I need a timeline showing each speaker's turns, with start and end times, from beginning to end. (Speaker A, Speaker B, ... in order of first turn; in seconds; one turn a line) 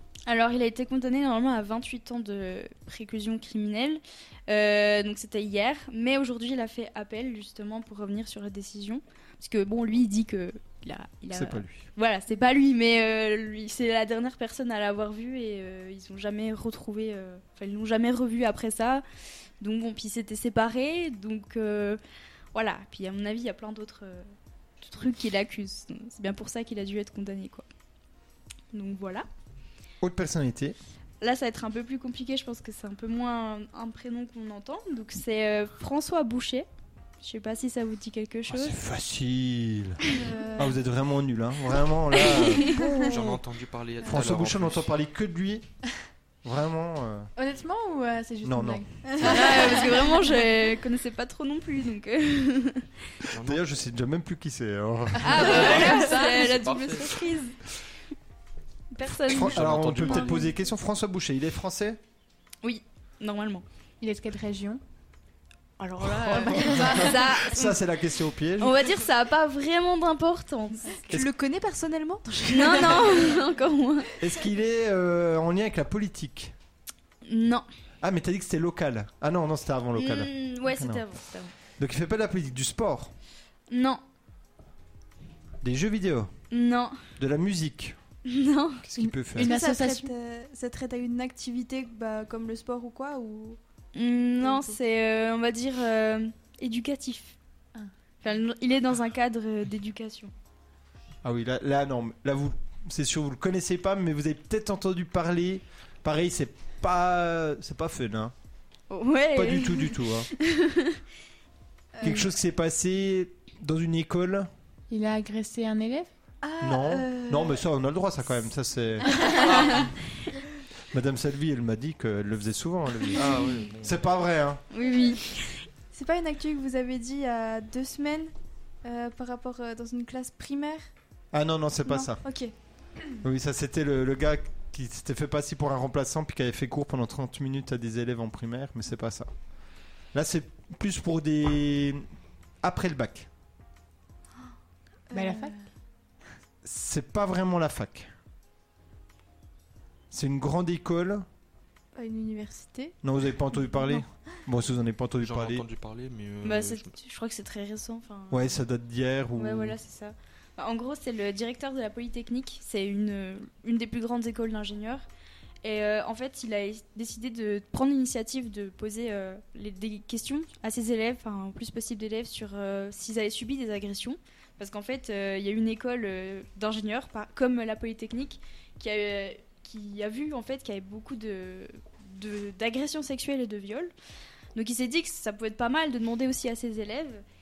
Speaker A: 0.3-19.0
Speaker B: 11.3-11.9
Speaker A: 19.6-22.0
Speaker A: 22.5-27.7
Speaker A: 28.7-29.3
Speaker B: 30.0-30.8
Speaker A: 31.2-36.7
Speaker A: 37.2-38.8
Speaker B: 38.5-40.0
Speaker C: 40.2-40.6
Speaker B: 40.6-43.4
Speaker A: 42.2-42.9
Speaker D: 43.0-44.9
Speaker B: 44.0-45.7
Speaker B: 46.4-47.3
Speaker E: 47.4-50.0
Speaker B: 48.4-49.7
Speaker C: 49.1-49.7
Speaker A: 49.2-52.9
Speaker D: 53.3-53.6
Speaker B: 53.4-55.9
Speaker A: 55.2-57.6
Speaker D: 55.4-57.2
Speaker A: 58.9-60.5
Speaker B: 59.1-62.0
Speaker D: 59.4-60.4
Speaker A: 62.6-63.6
Speaker E: 64.0-64.8
Speaker A: 65.8-67.8
Speaker E: 66.2-67.2
Speaker B: 66.3-68.9
Speaker A: 68.6-71.0
Speaker C: 71.1-73.4
Speaker A: 72.5-74.1
Speaker B: 74.2-76.5
Speaker A: 77.2-77.7
Speaker B: 78.0-81.1
Speaker A: 80.0-81.5
Speaker B: 81.8-83.1
Speaker A: 83.7-84.0
Speaker B: 85.6-86.3
Speaker A: 86.5-87.0
Speaker B: 87.2-88.0
Speaker A: 88.3-88.9
Speaker B: 88.8-89.5
Speaker E: 89.0-90.1
Speaker C: 89.4-93.6
Speaker A: 93.9-97.4
Speaker C: 94.4-94.8
Speaker A: 98.2-100.3
Speaker B: 101.2-108.3
Speaker A: 108.9-111.0
Speaker B: 109.3-110.3
Speaker C: 112.0-112.3
Speaker B: 112.0-114.5
Speaker E: 114.9-116.1
Speaker C: 116.4-117.6
Speaker B: 116.6-119.7
Speaker D: 119.5-119.8
Speaker B: 120.9-123.3
Speaker D: 123.2-124.0
Speaker B: 123.8-124.6
Speaker A: 124.7-125.7
Speaker C: 125.9-128.3
Speaker C: 128.8-130.9
Speaker B: 131.3-132.2
Speaker C: 131.9-132.5
Speaker B: 133.2-139.3
Speaker B: 140.1-142.0
Speaker B: 142.6-143.3
Speaker C: 145.1-145.6
Speaker E: 145.1-145.6
Speaker B: 146.6-148.1
Speaker B: 150.1-151.3
Speaker C: 151.9-152.9
Speaker B: 153.0-155.6
Speaker D: 155.2-156.9
Speaker A: 156.4-158.6
Speaker B: 158.3-159.8
Speaker A: 159.4-165.0
Speaker A: 165.6-183.9
Speaker A: 184.6-187.2